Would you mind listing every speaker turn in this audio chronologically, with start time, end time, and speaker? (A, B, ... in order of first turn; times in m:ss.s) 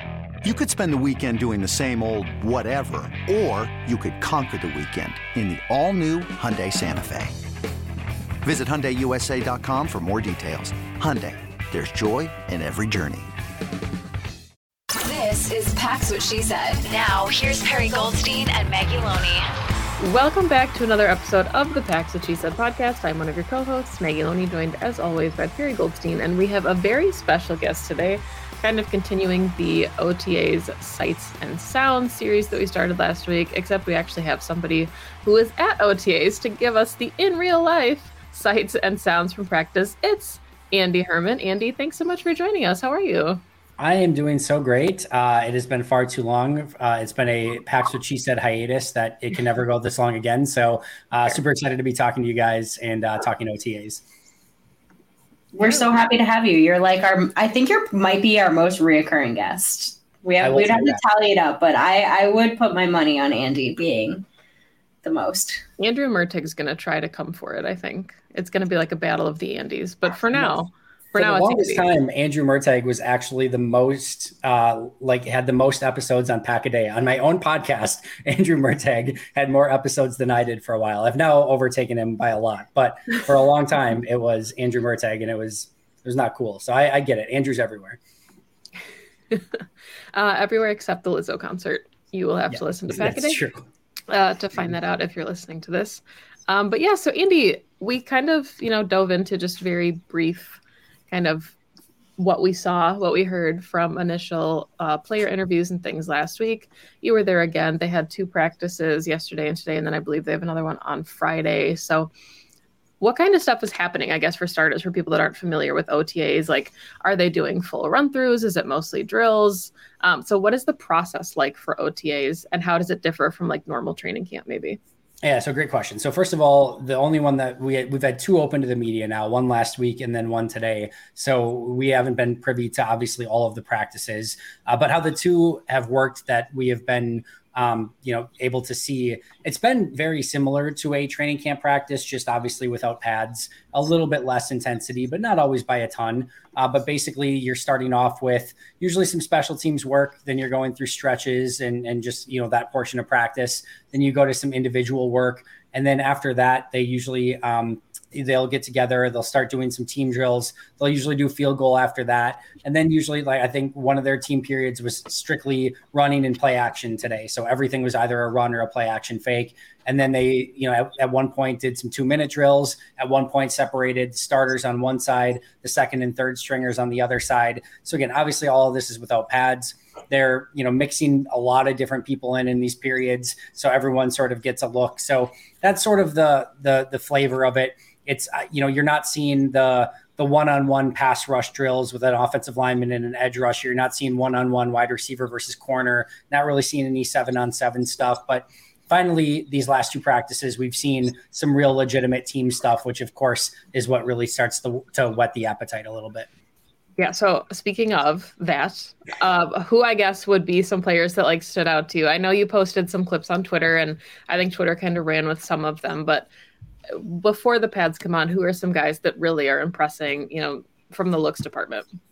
0:00.4-0:07.4 A
0:08.4-0:13.3 A
0:14.9-0:19.4 B
0:20.0-0:43.4 C
0:43.8-0:54.0 D
0:55.5-1:04.2 E
0:55.6-0:55.9 C
1:00.4-1:01.0 D
1:05.0-1:05.6 E
1:05.8-1:11.9 C
1:11.1-1:28.0 D
1:29.3-1:29.6 C
1:30.1-1:33.4 C
1:32.5-1:33.6 D
1:34.1-1:41.6 C
1:42.2-1:52.1 C
1:53.0-2:04.8 C
2:05.2-3:26.3 D
3:27.0-3:36.3 C
3:36.9-3:41.9 C